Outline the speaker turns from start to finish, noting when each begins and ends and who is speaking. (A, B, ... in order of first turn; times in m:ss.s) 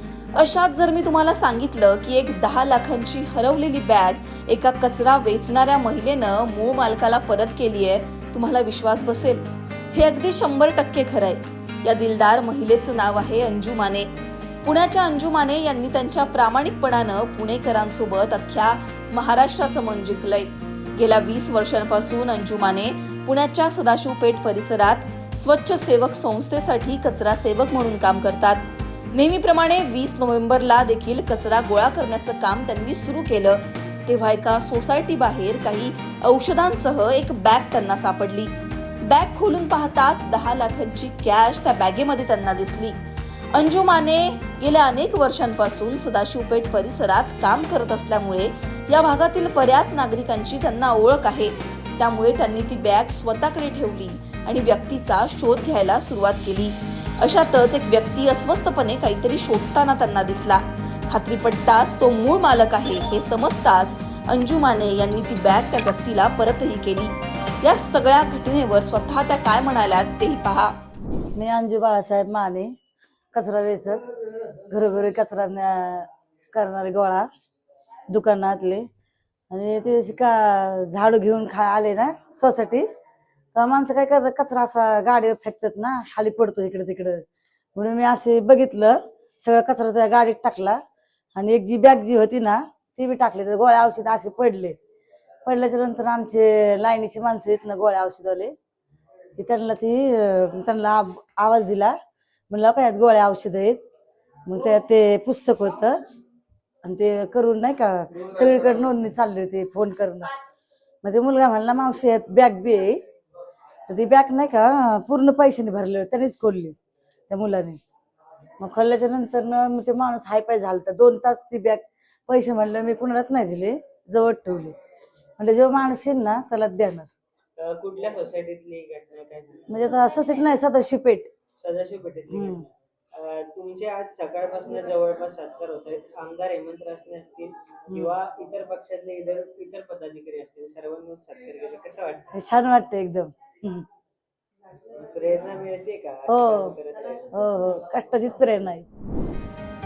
0:00.3-0:14.1 A
0:14.6-0:43.0 A
0:43.5-1:10.8 A
1:11.4-1:12.7 B
1:13.3-1:14.0 B
1:14.6-1:17.3 B
1:18.1-1:18.8 B
1:19.5-1:22.9 B
1:23.6-1:27.2 B
1:27.8-1:30.8 B
1:31.3-1:34.8 B
1:35.4-1:38.5 B
1:39.4-1:41.9 B
1:42.5-1:43.8 B
1:44.4-1:46.0 B
1:46.8-1:50.3 B
1:51.0-1:53.0 B
1:53.9-1:56.7 B
1:57.3-1:57.8 B
1:58.6-2:04.8 B
2:05.4-2:07.1 B
2:07.6-2:10.0 C
2:09.7-2:11.3 B
2:11.6-2:22.3 C
2:12.3-2:12.6 B
2:22.3-2:23.8 B
2:24.9-2:27.6 C
2:26.3-2:28.8 B